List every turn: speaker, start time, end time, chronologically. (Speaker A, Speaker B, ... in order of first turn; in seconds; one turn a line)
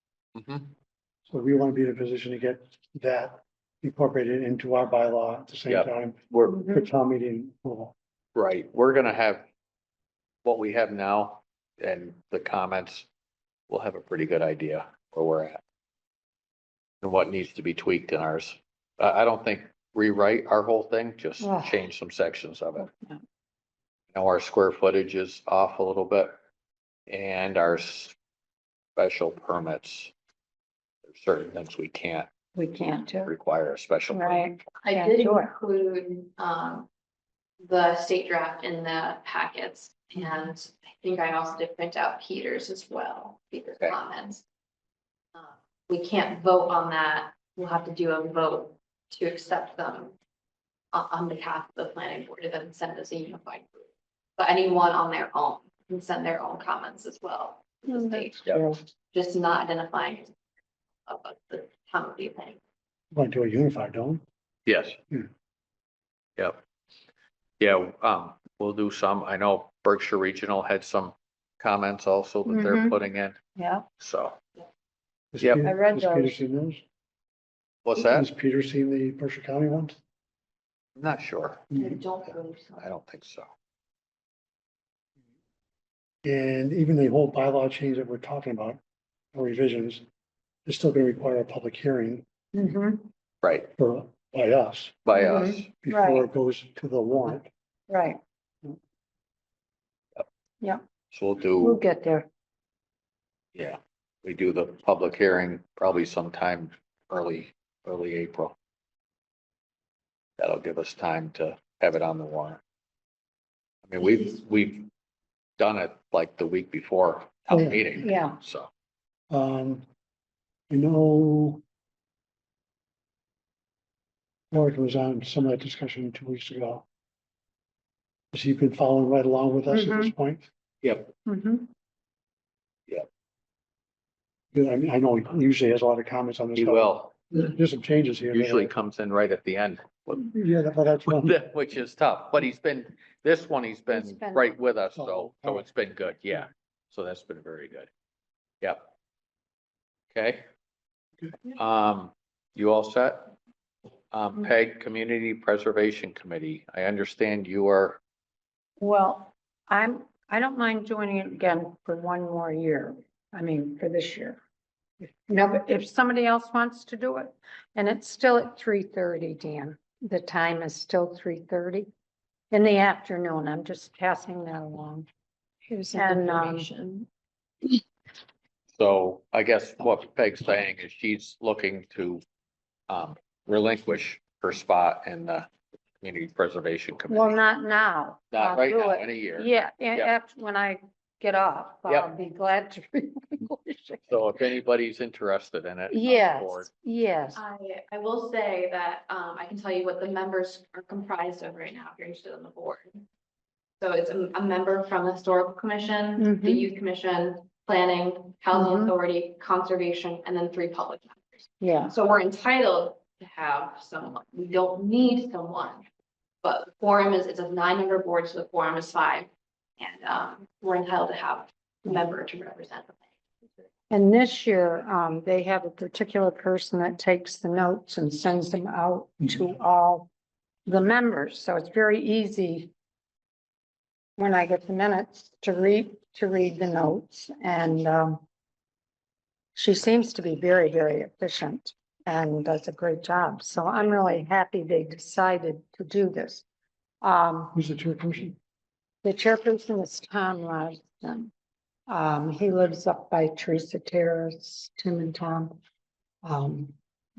Speaker A: 0.3-0.7
Speaker B: 1.3-7.9
Speaker A: 5.7-6.6
Speaker C: 6.5-6.9
Speaker A: 8.3-9.4
Speaker A: 10.4-13.1
Speaker A: 13.7-15.6
Speaker A: 17.0-22.9
Speaker C: 21.4-21.8
Speaker C: 22.8-23.2
Speaker A: 24.1-26.4
Speaker A: 27.1-28.1
Speaker A: 29.0-30.1
Speaker A: 31.0-32.3
Speaker C: 32.5-33.3
Speaker A: 33.2-34.5
Speaker C: 34.1-35.5
Speaker D: 34.8-36.9
Speaker D: 37.6-44.4
Speaker D: 45.3-50.1
Speaker D: 50.9-58.4
Speaker C: 57.9-58.8
Speaker D: 59.1-60.3
Speaker D: 61.1-62.6
Speaker B: 63.1-64.2
Speaker A: 64.7-65.0
Speaker A: 67.6-73.4
Speaker C: 72.5-73.0
Speaker C: 73.6-73.8
Speaker A: 74.0-74.4
Speaker B: 75.3-76.8
Speaker C: 75.6-76.4
Speaker A: 77.8-78.3
Speaker B: 78.0-80.0
Speaker A: 81.0-81.7
Speaker B: 81.7-82.0
Speaker D: 81.8-82.8
Speaker A: 82.8-83.5
Speaker B: 86.2-88.8
Speaker B: 89.3-90.0
Speaker B: 90.7-92.2
Speaker C: 92.5-93.1
Speaker A: 93.4-93.7
Speaker B: 93.8-95.0
Speaker A: 95.1-95.7
Speaker C: 95.2-96.3
Speaker B: 95.7-97.5
Speaker C: 97.9-98.2
Speaker A: 101.1-101.8
Speaker C: 101.6-102.3
Speaker A: 103.5-108.5
Speaker A: 110.4-112.6
Speaker A: 113.9-114.9
Speaker A: 115.6-118.7
Speaker B: 117.5-118.0
Speaker C: 118.0-118.4
Speaker B: 119.3-119.8
Speaker B: 120.7-121.6
Speaker B: 124.5-126.8
Speaker B: 128.3-130.5
Speaker C: 129.7-130.1
Speaker A: 130.8-131.1
Speaker C: 131.2-131.7
Speaker B: 134.5-138.7
Speaker A: 136.6-137.2
Speaker A: 138.3-140.2
Speaker B: 140.1-141.3
Speaker A: 141.1-147.9
Speaker C: 143.9-144.6
Speaker B: 145.0-145.7
Speaker A: 150.1-150.4
Speaker A: 151.5-153.3
Speaker A: 154.1-158.0
Speaker C: 158.8-164.4
Speaker C: 165.0-171.9
Speaker C: 172.5-175.1
Speaker D: 175.7-177.1
Speaker C: 175.9-176.7
Speaker A: 178.8-182.2
Speaker A: 182.9-185.5
Speaker A: 186.0-187.4
Speaker C: 187.1-194.3
Speaker A: 188.3-190.1
Speaker A: 191.9-192.1
Speaker A: 194.1-196.7
Speaker C: 195.9-197.4
Speaker D: 197.3-203.0
Speaker D: 203.8-215.8
Speaker C: 206.2-206.7
Speaker C: 208.5-208.9
Speaker C: 211.6-211.9
Speaker D: 216.4-223.0
Speaker C: 223.9-230.1
Speaker C: 230.7-232.7
Speaker C: 234.2-238.2
Speaker C: 239.6-246.4
Speaker C: 247.0-247.6
Speaker B: 247.6-248.3
Speaker C: 249.0-251.3
Speaker C: 251.9-255.6
Speaker C: 256.2-256.7